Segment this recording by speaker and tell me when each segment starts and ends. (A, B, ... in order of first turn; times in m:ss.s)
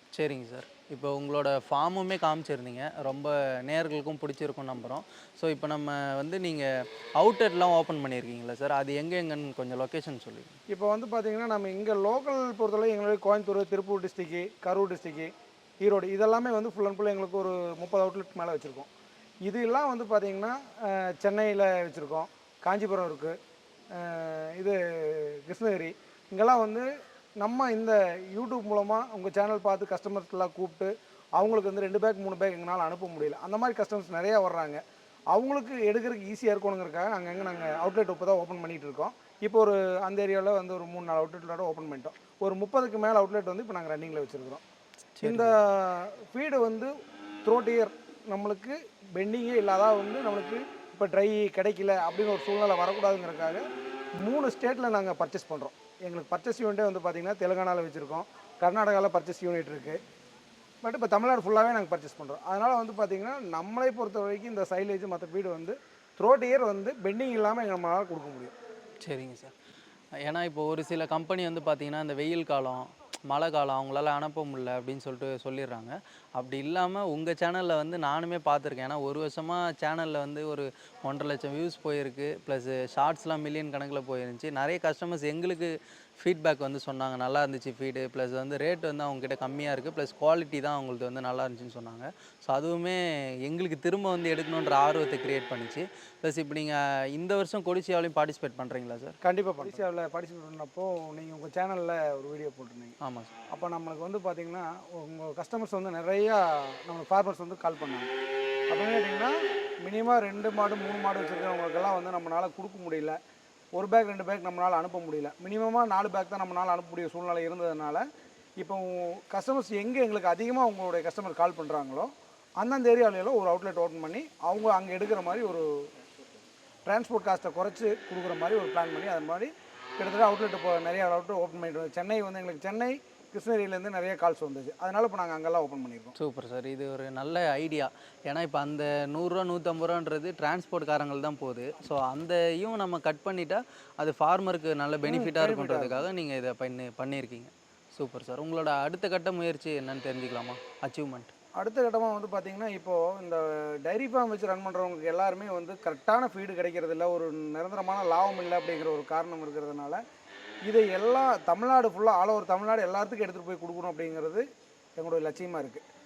0:00.1-0:10.6 A
0:10.7-0:15.3 B
0:15.8-0:18.9 B
0:19.5-0:23.4 B
0:23.9-0:34.8 B
0:35.3-0:44.6 B
0:45.2-0:45.6 A
0:45.2-0:53.6 B
0:54.2-1:00.0 B
1:00.8-1:08.5 B
1:09.0-1:09.5 A
1:10.2-1:39.2 A
1:39.2-1:43.0 B
1:43.0-1:43.3 A
1:43.5-1:48.1 B
1:48.7-1:53.2 B
1:53.8-1:58.1 B
1:58.6-2:05.9 B
2:06.9-2:16.2 B
2:16.2-2:31.3 A
2:25.0-2:26.0 B
2:31.6-2:40.0 B
2:40.7-2:44.5 B
2:45.0-2:45.8 B